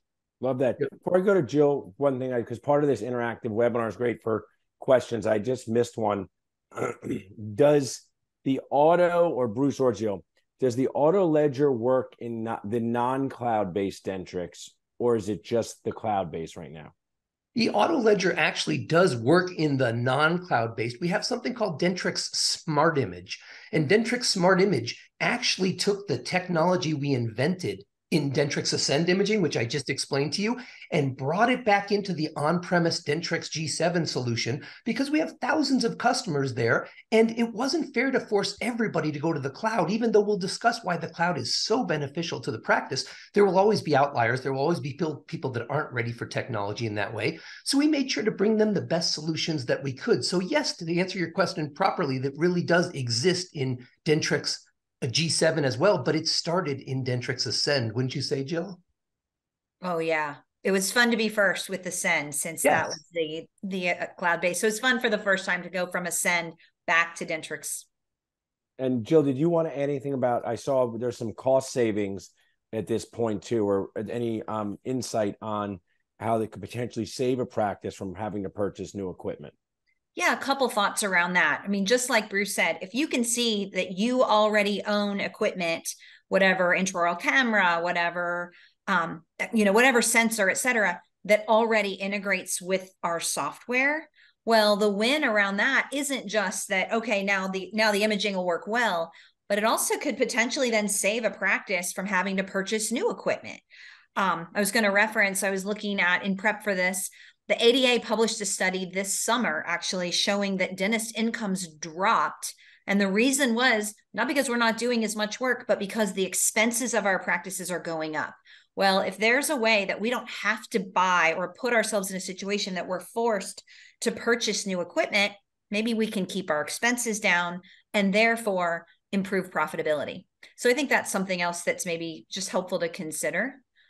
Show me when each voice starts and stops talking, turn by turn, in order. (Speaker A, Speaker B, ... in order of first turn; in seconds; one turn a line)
Speaker A: 0.4-16.9
Speaker B: 17.5-58.8
Speaker C: 59.8-67.8
Speaker B: 62.6-62.9
Speaker A: 68.8-79.5
Speaker C: 80.1-103.6
Speaker C: 104.2-133.6